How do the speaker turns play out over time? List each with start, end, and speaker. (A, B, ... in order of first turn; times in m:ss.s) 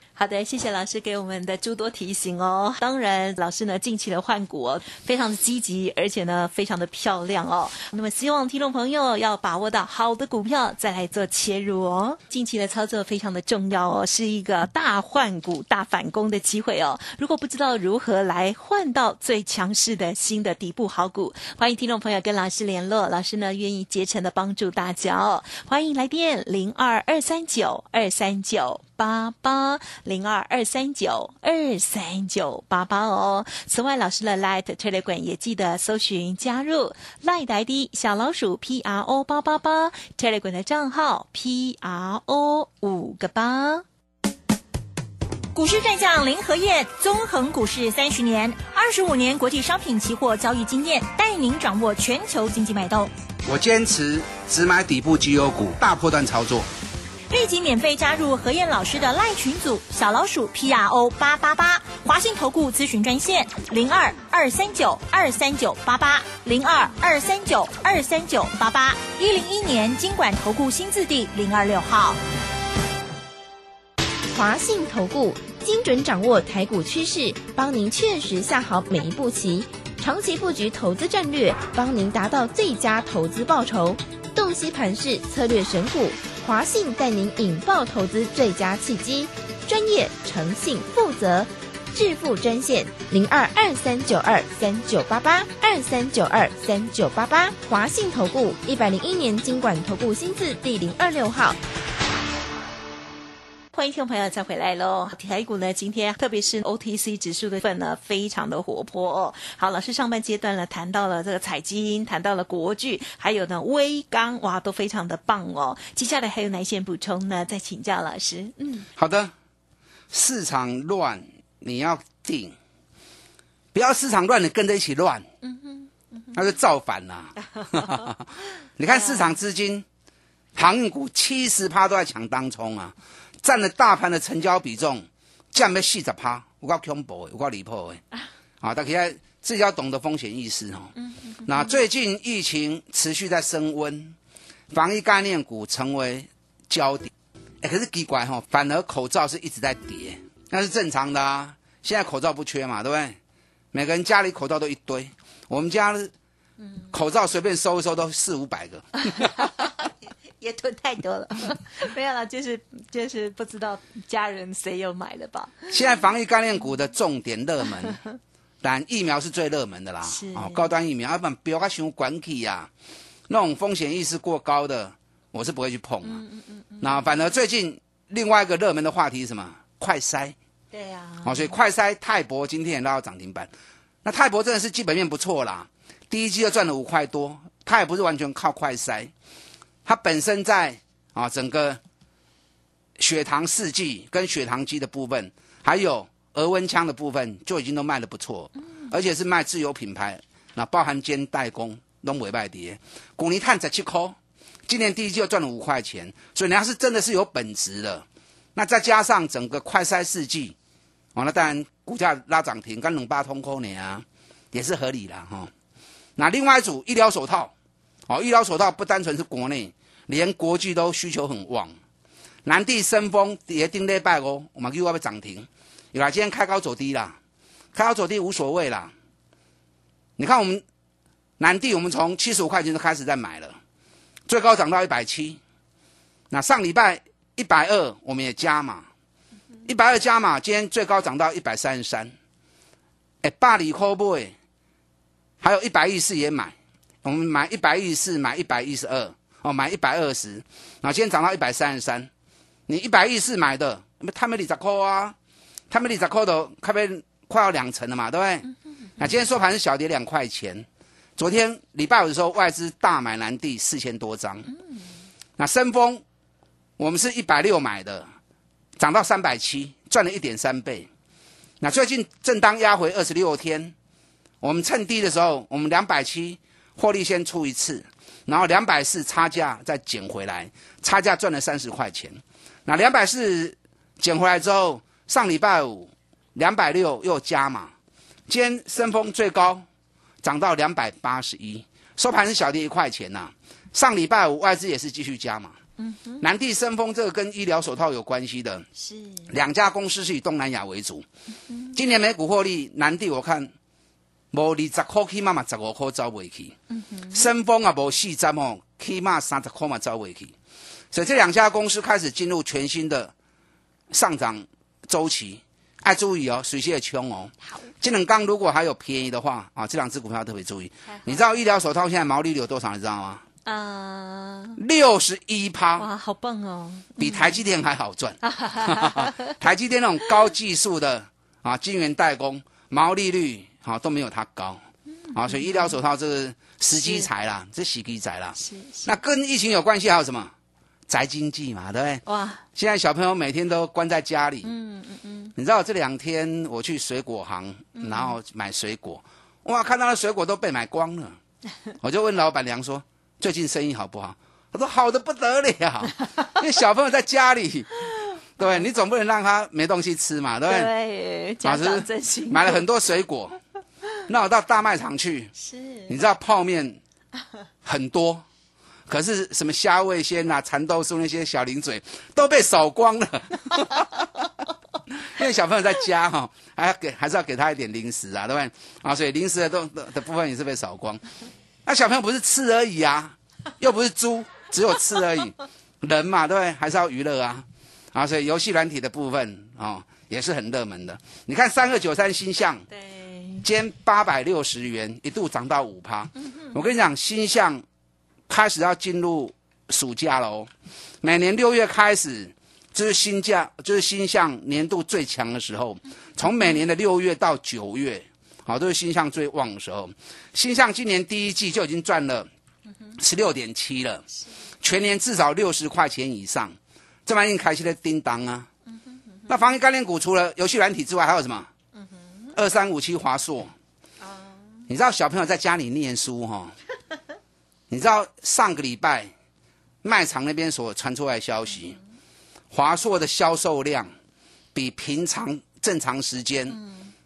0:00.2-0:43.8 A
0:45.5-0:53.1 B
0:53.4-0:56.7 C
0:57.3-1:12.2 B
1:14.3-1:41.6 D
1:43.7-1:58.9 A
1:59.0-1:59.3 C
2:00.1-2:02.6 C
2:03.7-2:05.3 C
2:05.4-2:06.3 A
2:06.3-2:08.2 C
2:08.8-2:09.9 C
2:08.9-2:09.3 A
2:10.6-2:18.0 C
2:18.6-2:20.9 C
2:21.0-2:21.8 A
2:21.4-2:24.2 C
2:24.7-2:33.2 C
2:33.7-2:36.1 C
2:36.6-2:36.9 A
2:36.9-2:39.3 C
2:39.1-2:39.9 A
2:40.4-2:45.8 A
2:45.7-2:48.0 C
2:48.6-2:52.7 C
2:50.0-2:50.7 A
2:53.3-2:56.2 C
2:56.0-2:57.1 A
2:56.8-3:00.4 C
3:00.7-3:01.6 A
3:01.2-3:03.5 C
3:04.0-3:09.1 C
3:09.8-3:11.8 C
3:13.0-3:24.2 C
3:24.7-3:30.6 C
3:31.2-3:35.5 C
3:36.2-3:37.5 C
3:38.1-3:41.8 C
3:42.4-3:47.2 C
3:47.7-3:48.9 C
3:50.2-3:50.6 C
3:51.4-3:53.6 C
3:54.3-3:55.4 C
3:56.3-3:58.9 C
3:59.7-4:02.1 C
4:03.2-4:04.3 C
4:05.4-4:12.1 C
4:12.7-4:15.2 C
4:15.7-4:24.5 C
4:25.4-4:26.0 C
4:26.8-4:28.1 C
4:28.8-4:30.9 C
4:31.6-4:33.7 C
4:34.4-4:47.7 C
4:48.3-4:49.6 C
4:50.2-4:55.6 C
4:55.8-4:56.2 A
4:56.2-4:58.7 C
4:58.8-4:59.3 A
4:59.3-5:01.1 C
5:01.5-5:01.8 A
5:01.7-5:03.5 C
5:04.3-5:06.6 C
5:06.7-5:07.3 A
5:07.1-5:10.3 C
5:10.9-5:13.1 C
5:13.9-5:23.2 C
5:20.9-5:21.3 A
5:23.4-5:24.6 A
5:24.6-5:25.9 C
5:25.8-5:27.4 A
5:27.0-5:34.6 C
5:28.2-5:29.3 A
5:35.1-5:35.8 A
5:35.1-5:40.3 C
5:38.4-5:38.9 A
5:40.9-5:42.0 C
5:42.1-5:42.4 A
5:42.6-5:44.5 C
5:44.4-5:45.3 A
5:45.4-5:51.2 C
5:47.8-5:48.2 A
5:51.8-6:00.7 C
6:00.5-6:02.6 A
6:01.4-6:03.4 C
6:04.1-6:05.3 C
6:05.4-6:06.0 A
6:05.9-6:06.8 C
6:07.6-6:08.2 C
6:08.9-6:14.0 C
6:15.0-6:21.0 C
6:21.6-6:32.6 C
6:32.7-6:33.4 A
6:33.4-6:37.6 C
6:38.3-6:40.5 C
6:41.0-6:52.3 C
6:53.0-6:54.0 C
6:54.6-6:58.5 C
6:59.3-7:01.5 C
7:01.8-7:02.3 A
7:02.4-7:03.5 C
7:04.0-7:04.6 A
7:04.7-7:06.5 C
7:07.7-7:09.1 C
7:09.8-7:11.8 C
7:12.5-7:13.9 C
7:14.5-7:16.6 C
7:16.5-7:16.9 A